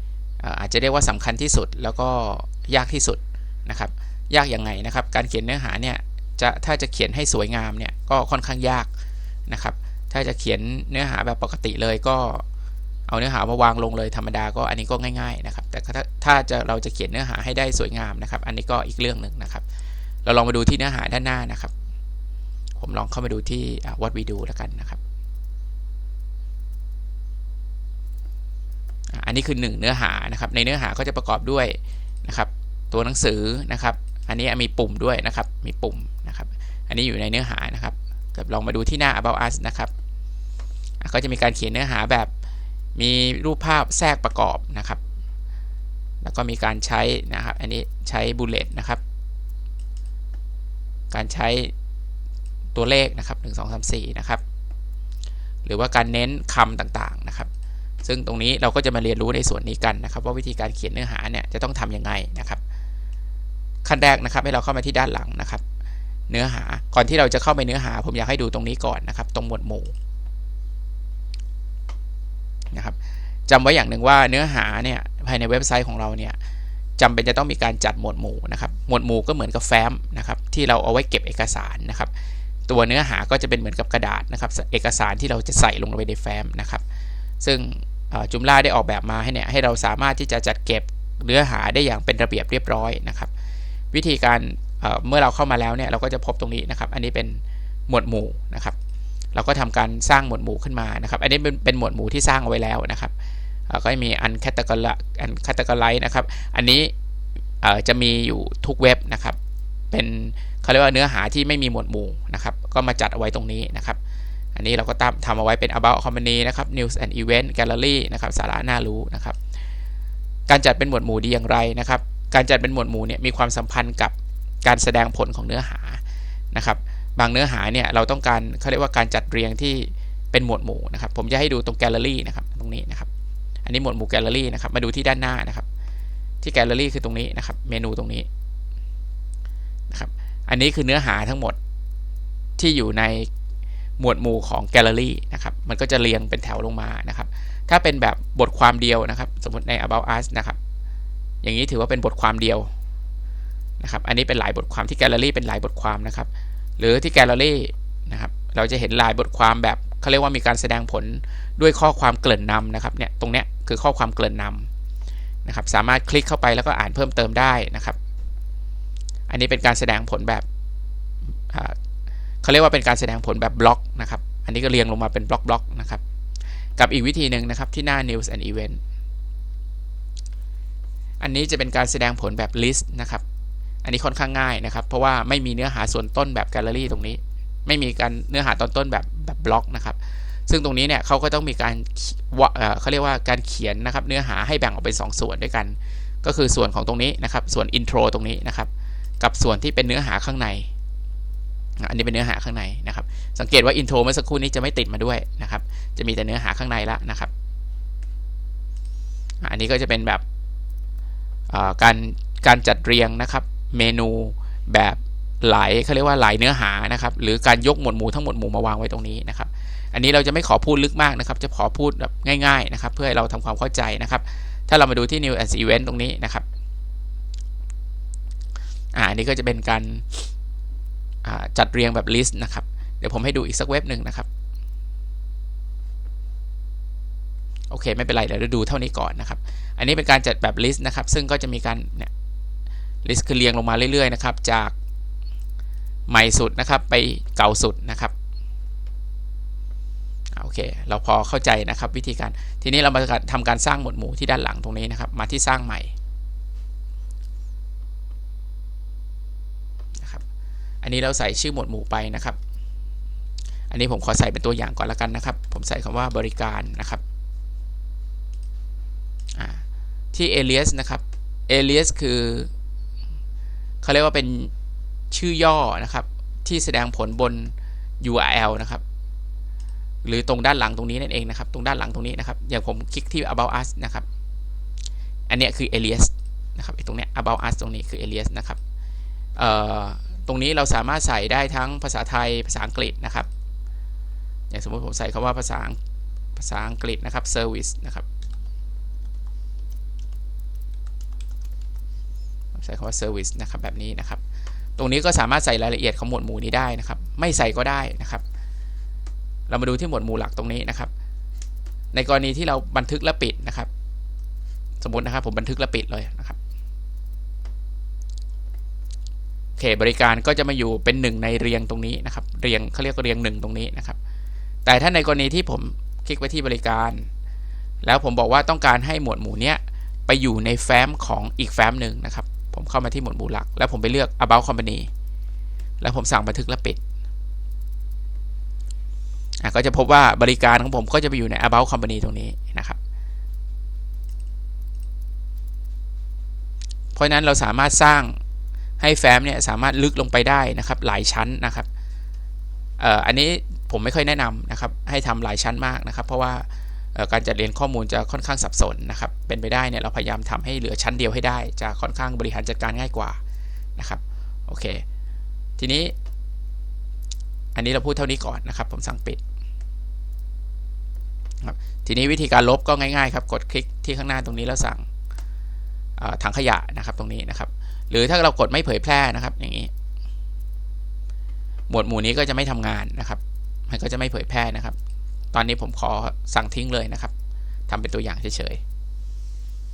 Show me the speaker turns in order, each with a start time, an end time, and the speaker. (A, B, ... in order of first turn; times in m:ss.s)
0:00.4-0:08.9 A
0:09.5-0:12.4 A
0:13.1-0:19.6 A
0:20.2-0:21.7 A
0:22.8-0:25.0 A
0:29.1-0:39.9 A
0:41.0-0:42.3 A
0:43.0-0:45.0 A
0:46.2-0:49.0 A
0:51.1-0:51.7 A
0:52.7-0:54.4 A
0:55.6-0:57.5 A
0:58.0-1:02.6 A
1:03.8-1:05.6 A
1:06.3-1:09.9 A
1:13.5-1:16.4 A
1:17.0-1:22.1 A
1:22.7-1:26.8 A
1:27.4-1:33.3 A
1:33.9-1:38.8 A
1:39.3-1:43.1 A
1:43.7-1:46.9 A
1:47.6-1:49.4 A
1:49.9-1:54.0 A
1:54.5-1:59.4 A
2:00.5-2:13.1 A
2:13.6-2:15.7 A
2:16.4-2:18.3 A
2:19.9-2:21.6 A
2:22.6-2:23.3 A
2:24.0-2:30.6 A
2:31.4-2:32.7 A
2:33.8-2:44.7 A
2:45.4-2:48.0 A
2:49.3-2:50.4 A
2:51.5-2:51.8 A
2:52.4-2:56.0 A
2:56.8-2:58.8 A
3:01.2-3:03.2 A
3:03.8-3:20.7 A
3:21.8-3:27.3 A
3:29.4-3:30.2 A
3:31.5-3:46.4 A
3:48.9-3:50.3 A
3:51.2-3:54.3 A
3:57.7-4:02.1 A
4:03.0-4:04.7 A
4:06.1-4:08.1 A
4:10.3-4:15.9 A
4:20.0-4:20.2 A
4:20.8-4:22.4 A
4:23.7-4:27.0 A
4:29.4-4:32.5 A
4:33.8-4:34.5 A
4:35.1-4:38.8 A
4:40.0-4:44.0 A
4:45.3-4:48.6 A
4:49.4-4:53.3 A
4:54.5-4:55.8 A
4:56.4-4:58.0 A
5:02.5-5:04.2 A
5:04.8-5:08.2 A
5:09.5-5:10.9 A
5:11.9-5:13.7 A
5:14.8-5:16.4 A
5:19.6-5:24.0 A
5:24.6-5:27.1 A
5:27.8-5:34.9 A
5:35.8-5:36.8 A
5:39.4-5:42.8 A
5:46.9-5:48.2 A
5:48.8-5:51.7 A
5:52.8-6:03.2 A
6:03.8-6:04.8 A
6:05.6-6:05.9 A
6:07.5-6:09.2 A
6:11.4-6:14.8 A
6:16.0-6:19.7 A
6:21.7-6:24.8 A
6:25.3-6:27.1 A
6:27.7-6:28.6 A